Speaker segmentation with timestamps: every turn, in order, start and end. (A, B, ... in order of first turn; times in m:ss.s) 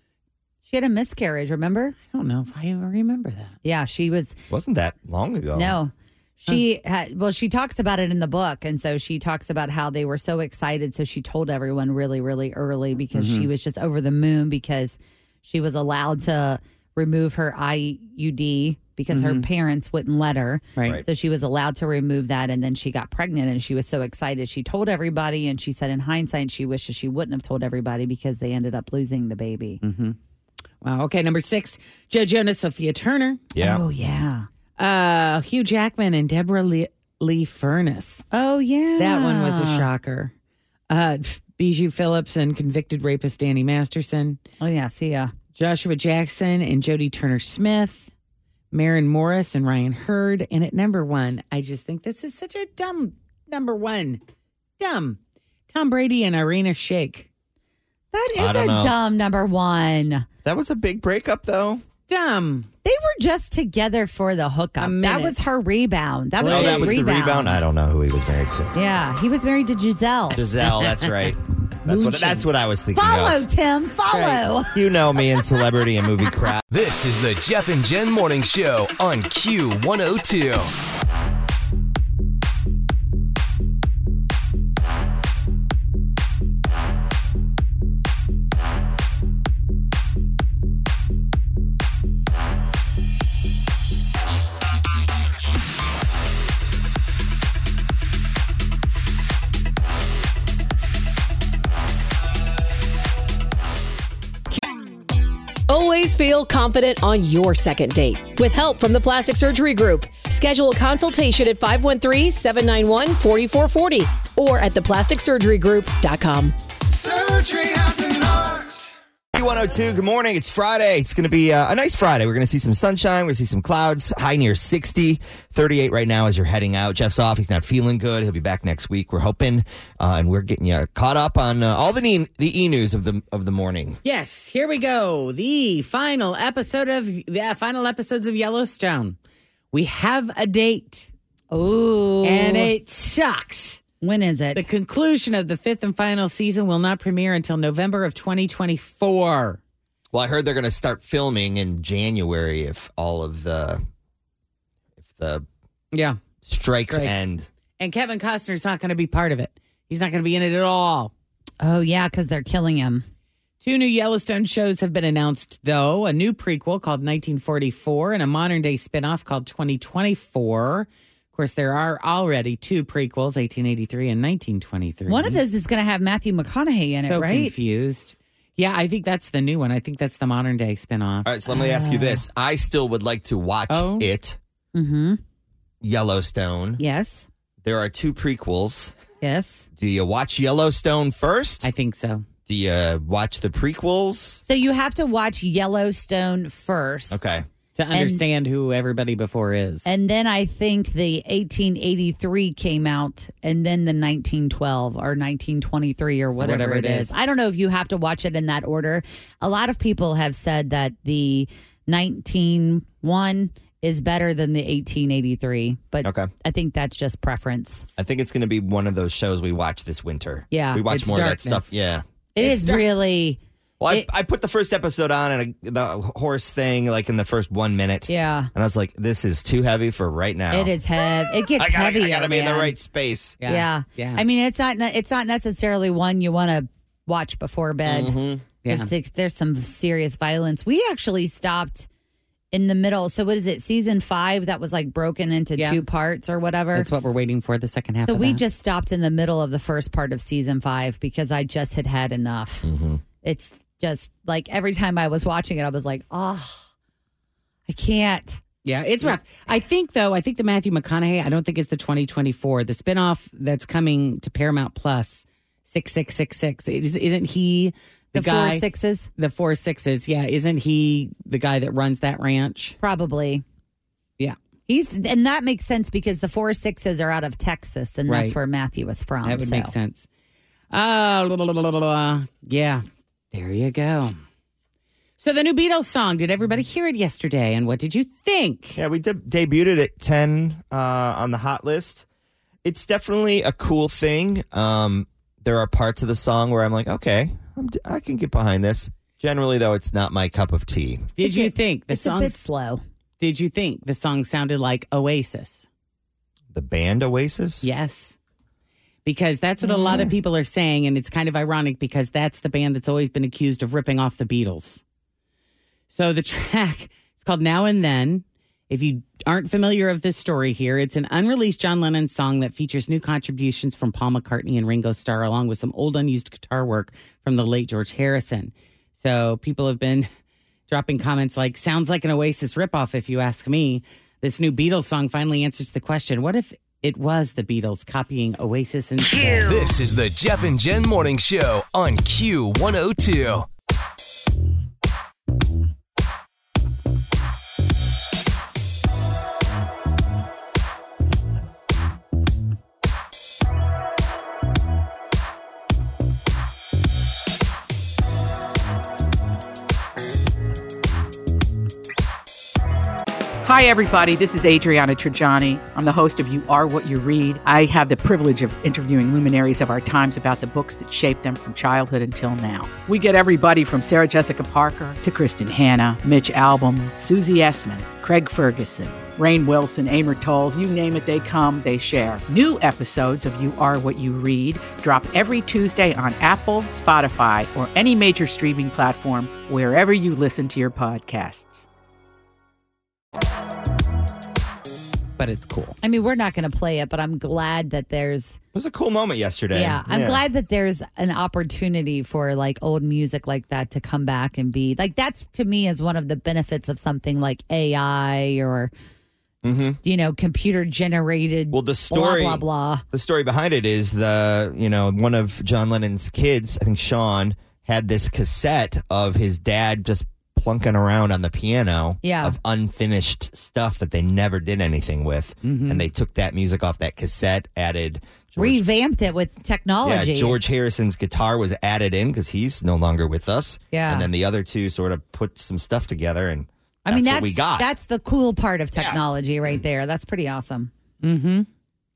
0:00.6-0:02.0 A
0:02.1-0:03.6 B
0:03.6-0:04.4 A
0:04.5-0:05.8 C
0:05.5-0:29.8 A
0:13.1-0:13.5 B
0:19.1-0:19.5 B
0:29.8-0:30.2 B
0:30.8-0:33.4 B
0:33.5-0:33.8 C
0:33.6-0:34.5 A
0:34.8-0:38.2 B
0:38.3-0:39.8 A
0:39.0-0:40.3 B
0:40.9-0:44.4 B
0:44.6-0:45.3 A
0:45.5-0:48.1 B
0:48.7-0:54.2 B
0:54.8-0:55.2 B
0:55.7-0:57.3 B
0:58.1-1:00.3 A
0:58.4-0:58.9 C
1:00.4-1:01.8 C
1:02.1-1:02.7 B
1:02.8-1:07.6 A
1:04.8-1:05.4 B
1:06.4-1:06.9 B
1:06.5-1:08.7 C
1:08.7-1:10.5 A
1:10.3-1:13.4 C
1:11.9-1:12.3 B
1:12.9-1:14.7 A
1:14.1-1:14.4 B
1:14.7-1:16.6 C
1:16.7-1:20.7 D
1:45.7-1:56.6 E
1:56.8-2:14.0 C
2:14.0-2:19.2 B
2:19.7-2:21.1 B
2:21.5-2:22.7 A
2:22.2-2:23.8 B
2:24.0-2:24.7 A
2:24.5-2:29.6 B
2:30.1-2:33.8 C
2:35.1-2:35.5 C
2:35.9-2:36.2 B
2:36.4-2:37.5 C
2:36.9-2:37.2 B
2:37.8-2:41.1 B
2:41.6-2:43.0 A
2:43.6-2:55.4 B
2:55.1-2:57.5 A
2:57.0-3:01.3 B
3:01.2-3:04.4 C
3:01.5-3:02.2 A
3:03.7-3:04.1 B
3:04.7-3:05.2 A
3:05.8-3:06.8 C
3:06.8-3:07.3 A
3:07.6-3:08.9 C
3:09.2-3:09.7 A
3:09.8-3:11.7 C
3:11.6-3:12.2 B
3:12.5-3:14.4 C
3:14.4-3:17.2 A
3:17.1-3:17.5 C
3:17.7-3:19.9 B
3:17.9-3:18.2 A
3:19.8-3:37.9 A
3:26.4-3:27.1 B
3:36.0-3:36.3 C
3:38.0-3:42.0 C
3:40.5-3:40.8 A
3:40.9-3:41.7 B
3:42.3-3:44.1 A
3:42.4-3:42.9 B
3:43.8-3:53.4 C
3:48.1-3:48.5 A
3:50.5-3:52.8 A
3:53.4-3:54.2 B
3:53.4-3:58.2 A
3:57.8-3:58.4 C
3:58.6-3:58.9 B
3:58.7-4:01.9 A
4:02.5-4:06.9 A
4:05.6-4:05.8 B
4:06.7-4:08.4 B
4:08.0-4:12.7 A
4:12.6-4:13.0 C
4:13.2-4:16.6 A
4:17.7-4:18.4 A
4:18.6-4:28.6 B
4:28.1-4:29.1 A
4:29.2-4:32.8 B
4:32.8-4:33.4 A
4:34.7-4:39.7 A
4:38.1-4:38.3 B
4:39.2-4:40.1 B
4:40.7-4:44.2 B
4:45.2-4:48.8 B
4:48.8-4:52.0 C
4:52.6-5:01.1 C
5:01.2-5:02.4 B
5:01.2-5:02.8 A
5:03.2-5:05.7 B
5:06.5-5:07.7 C
5:07.6-5:08.2 B
5:09.0-5:14.8 B
5:09.6-5:10.1 A
5:15.9-5:30.1 B
5:30.7-5:39.5 B
5:39.3-5:43.5 D
6:03.4-6:31.6 F
6:35.2-6:35.8 B
6:35.8-6:38.4 A
6:38.5-6:40.2 C
6:39.5-6:48.7 A
6:49.4-6:49.8 C
6:49.8-6:52.8 A
6:51.5-7:08.6 C
7:02.0-7:02.4 A
7:05.4-7:05.9 B
7:08.4-7:10.4 A
7:09.8-7:17.7 C
7:13.7-7:14.1 A
7:16.8-7:20.7 A
7:18.8-7:19.0 C
7:21.0-7:21.5 B